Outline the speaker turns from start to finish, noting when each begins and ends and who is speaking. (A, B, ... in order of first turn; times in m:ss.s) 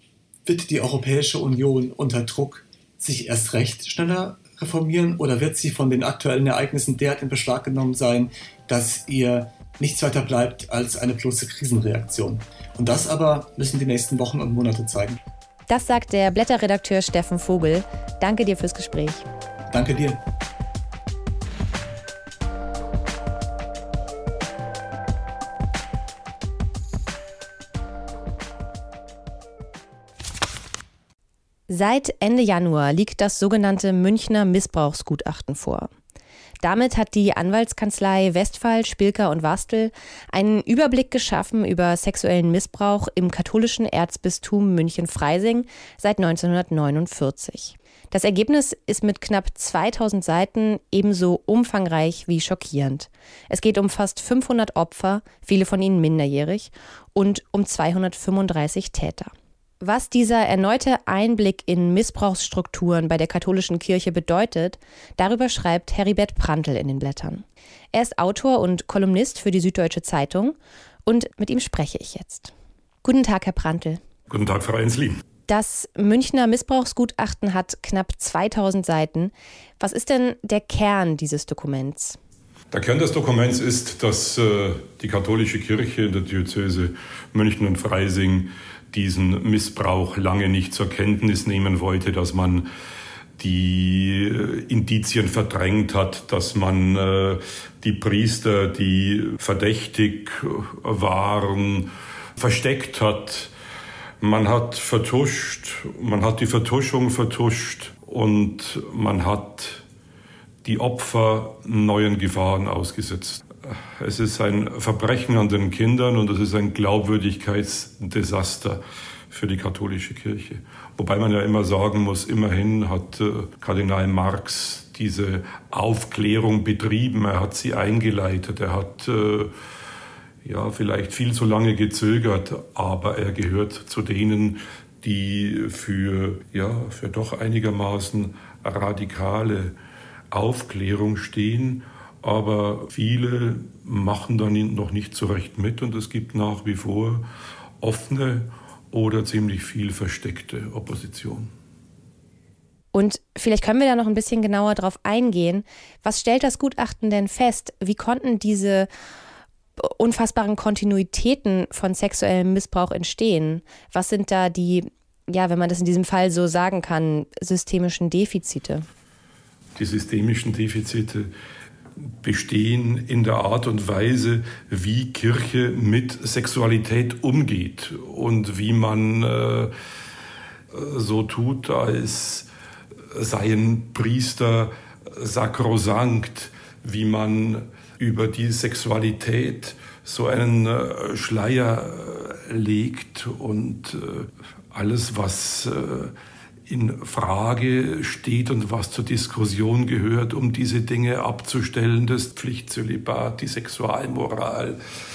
0:00.4-0:15.2 A
0:15.7-0:19.2 B
0:19.7-0:20.2 A
0:31.7-0:35.9 B
0:36.6-1:12.5 B
1:13.0-1:14.0 B
1:14.3-1:15.2 C
1:15.5-1:22.2 B
1:22.7-1:32.7 C
1:33.4-1:43.5 C
1:44.2-1:49.8 C
1:50.6-2:09.5 C
2:10.4-2:19.8 C
2:20.3-2:27.3 C
2:27.8-2:31.5 C
2:32.9-2:38.9 B
2:39.8-2:48.9 B
2:49.8-2:51.3 C
2:52.2-2:59.7 C
3:00.7-3:02.5 C
3:03.1-3:16.1 C
3:16.7-3:24.8 C